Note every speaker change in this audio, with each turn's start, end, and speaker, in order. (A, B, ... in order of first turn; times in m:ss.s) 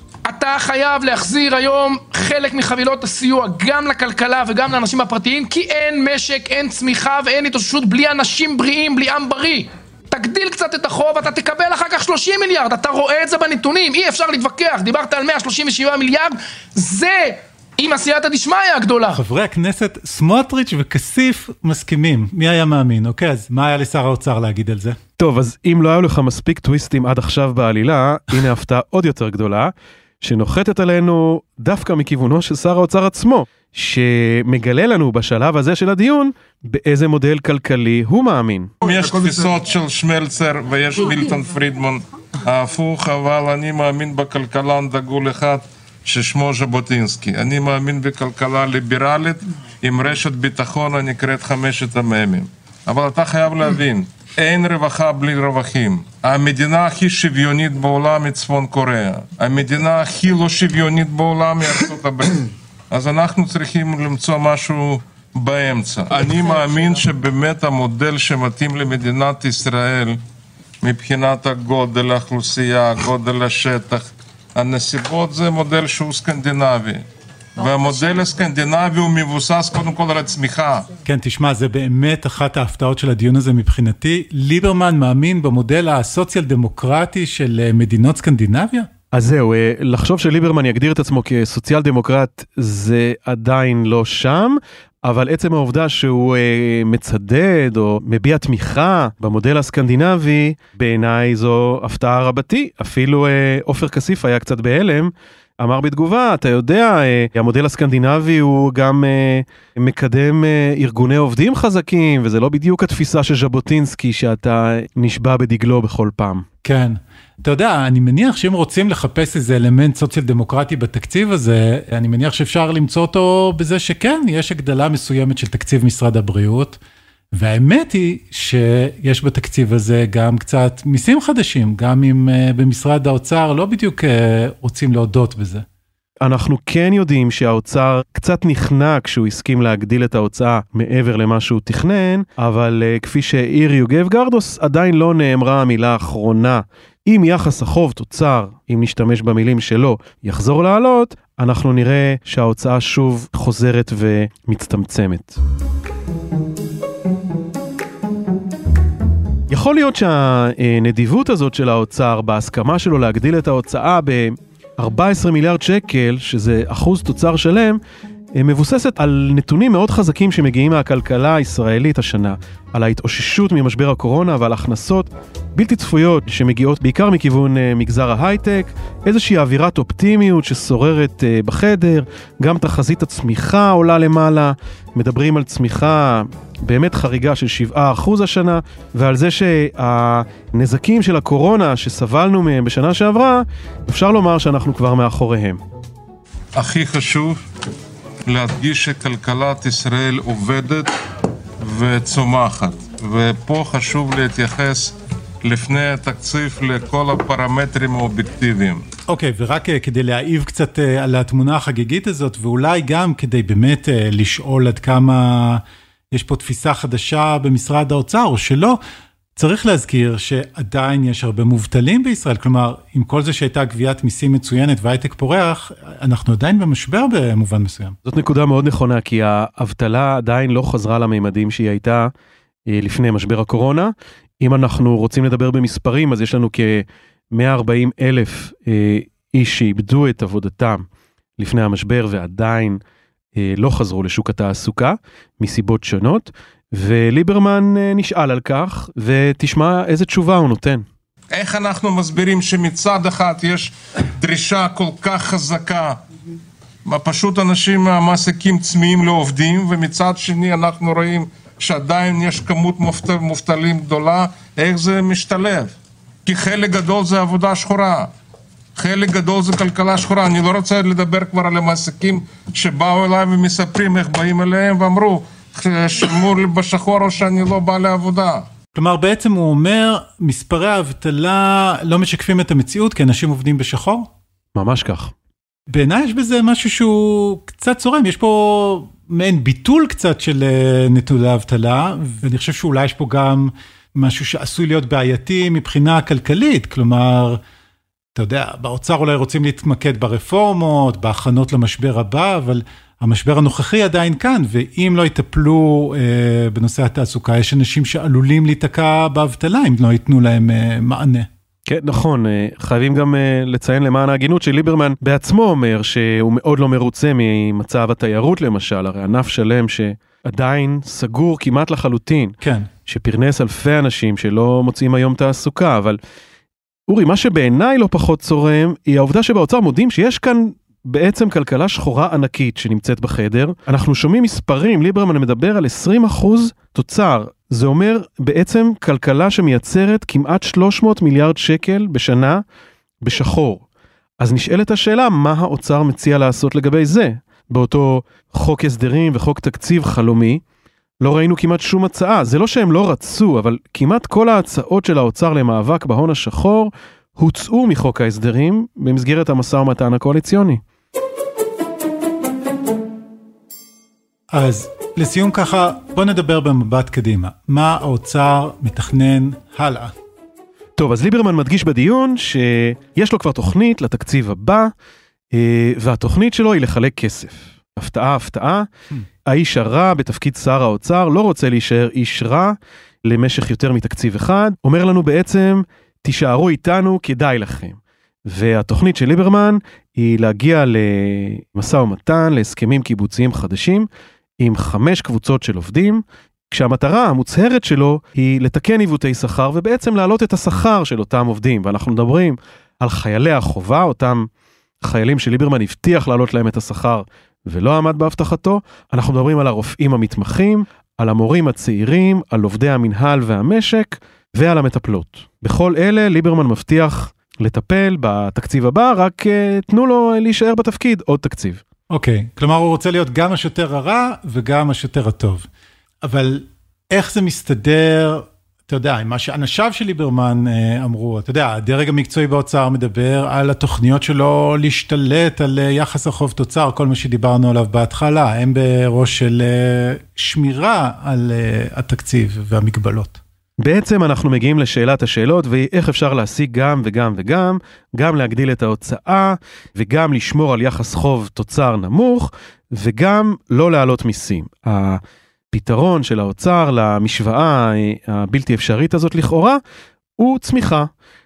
0:00.2-0:19.2 A
0:19.1-0:25.0 B
0:25.2-0:38.7 C
0:38.8-1:10.2 D
1:10.8-1:17.0 D
1:17.6-1:20.9 D
1:21.0-1:28.9 B
1:29.1-1:56.5 C
1:56.6-2:06.8 B
2:07.3-2:15.6 B
2:16.2-2:35.4 C
2:39.5-2:47.8 C
2:48.4-3:15.6 C
3:16.6-3:17.4 D
3:18.3-3:20.9 D
3:21.6-3:28.8 D
3:29.1-3:38.8 B
3:39.4-3:48.0 B
3:48.1-3:52.1 C
3:52.7-4:00.9 C
4:01.4-4:02.8 C
4:03.4-4:10.8 C
4:11.3-4:16.0 D
4:16.8-4:25.7 D
4:26.3-4:28.1 D
4:28.8-4:38.5 D
4:38.8-4:44.1 B
4:44.6-4:45.1 C
4:45.7-4:57.4 B
4:58.2-5:11.3 B
5:11.7-5:26.0 C
5:22.4-5:22.7 B
5:26.9-5:42.4 C
5:43.0-5:43.6 C
5:44.2-5:50.4 C
5:51.0-6:00.6 C
6:04.3-6:09.9 B
6:10.8-6:14.7 C
6:15.3-6:18.7 C
6:19.3-6:33.9 C
6:34.4-6:44.3 C
6:44.8-7:01.6 C
7:01.9-7:05.5 B
7:06.0-7:23.2 B
7:23.6-7:39.6 C
7:40.2-7:40.9 C